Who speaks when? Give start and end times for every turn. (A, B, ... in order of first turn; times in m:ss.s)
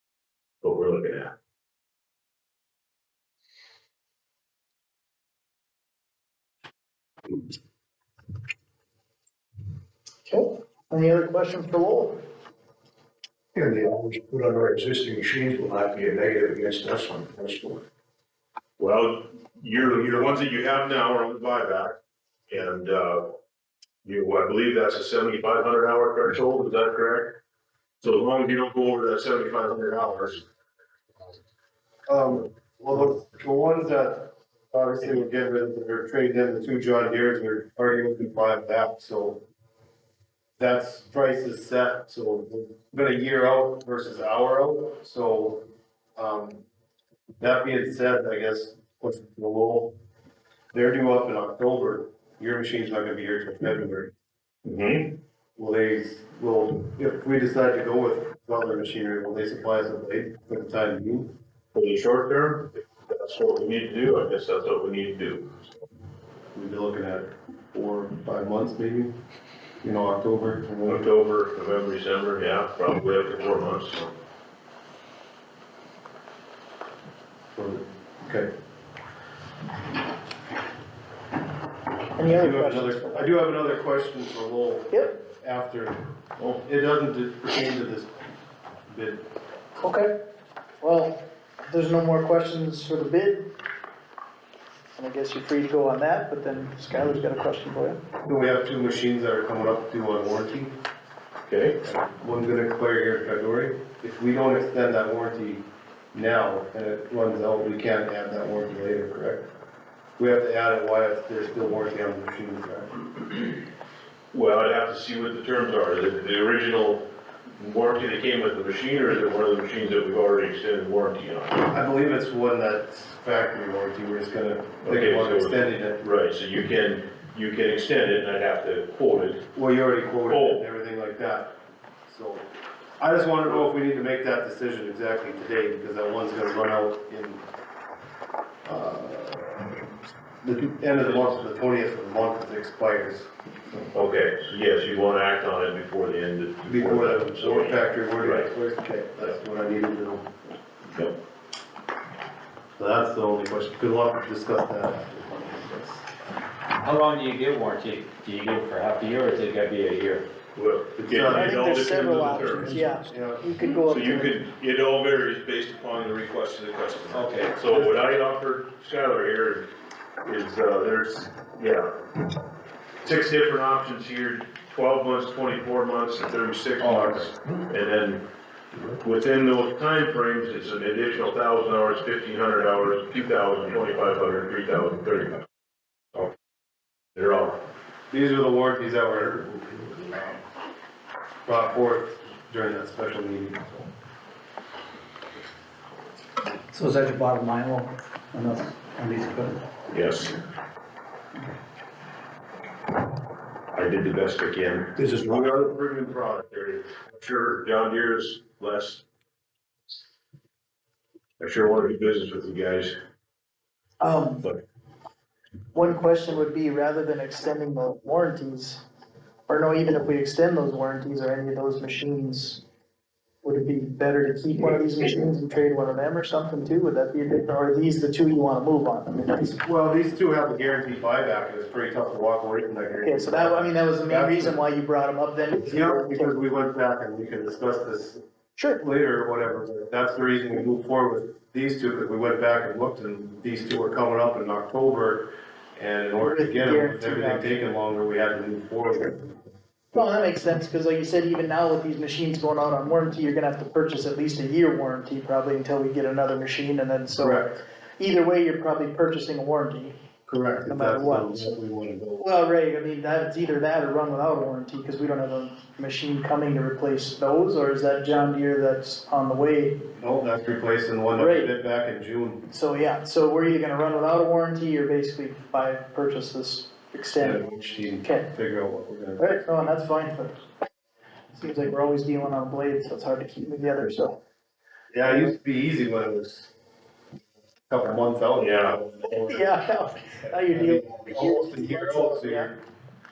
0:00.6-0:01.3 A
0:10.2-0:12.2 B
0:13.5-0:17.8 C
0:18.8-0:22.0 A
0:19.8-0:20.3 C
0:22.5-0:23.3 A
0:24.0-0:27.4 A
0:28.0-0:30.4 A
0:32.1-0:39.4 D
0:40.6-0:45.6 D
0:46.2-0:46.6 D
0:47.4-0:49.9 D
0:50.7-0:54.1 D
0:54.6-0:55.1 A
0:55.6-1:01.3 D
1:01.7-1:05.6 A
1:06.5-1:09.1 D
1:09.8-1:11.1 D
1:10.9-1:14.1 A
1:17.6-1:18.5 D
1:22.2-1:23.3 B
1:22.2-1:26.0 D
1:26.4-1:26.6 A
1:26.6-1:28.2 D
1:28.9-1:29.2 D
1:29.8-1:30.1 B
1:30.8-1:33.5 B
1:34.9-1:38.0 B
1:38.2-1:40.7 D
1:41.5-1:41.8 A
1:41.8-1:45.6 D
1:46.1-1:49.4 D
1:50.2-1:52.9 D
1:54.3-1:57.0 A
1:57.6-2:01.7 A
2:01.7-2:06.0 D
2:04.8-2:09.4 A
2:09.5-2:11.5 D
2:10.3-2:10.6 A
2:12.0-2:12.4 D
2:13.0-2:17.4 D
2:18.6-2:19.7 D
2:20.4-2:23.8 D
2:23.9-2:28.5 A
2:26.6-2:30.3 D
2:32.8-2:36.0 D
2:36.8-2:38.0 E
2:36.9-2:39.8 F
2:38.6-2:40.2 E
2:40.5-2:42.9 A
2:41.0-2:41.6 D
2:41.3-2:44.4 B
2:42.8-2:43.4 D
2:43.8-2:49.7 A
2:47.1-2:48.0 D
2:50.2-2:51.9 A
2:53.0-2:58.2 A
2:56.8-2:57.3 D
2:59.0-3:05.4 A
3:07.1-3:07.6 A
3:08.1-3:10.4 D
3:11.4-3:13.9 D
3:16.7-3:19.6 E
3:19.9-3:20.4 A
3:23.7-3:29.0 A
3:25.0-3:25.5 C
3:31.4-3:33.0 A
3:34.0-3:34.5 B
3:35.7-3:38.8 B
3:39.5-3:42.6 B
3:43.4-3:49.6 B
3:49.6-3:54.5 D
3:53.0-3:56.4 B
3:55.6-3:58.2 D
3:58.6-3:58.8 B
3:58.8-4:09.4 D
4:06.2-4:07.6 B
4:09.9-4:19.9 B
4:17.2-4:17.6 D
4:20.3-4:22.2 D
4:20.6-4:21.5 B
4:22.2-4:29.8 B
4:30.0-4:32.4 D
4:31.2-4:31.5 B
4:32.5-4:38.3 B
4:37.2-4:39.3 D
4:39.2-4:40.4 B
4:41.3-4:44.2 B
4:44.9-4:46.5 D
4:47.7-4:49.5 D
4:48.4-4:48.8 A
4:49.0-4:52.5 B
4:50.4-4:52.6 D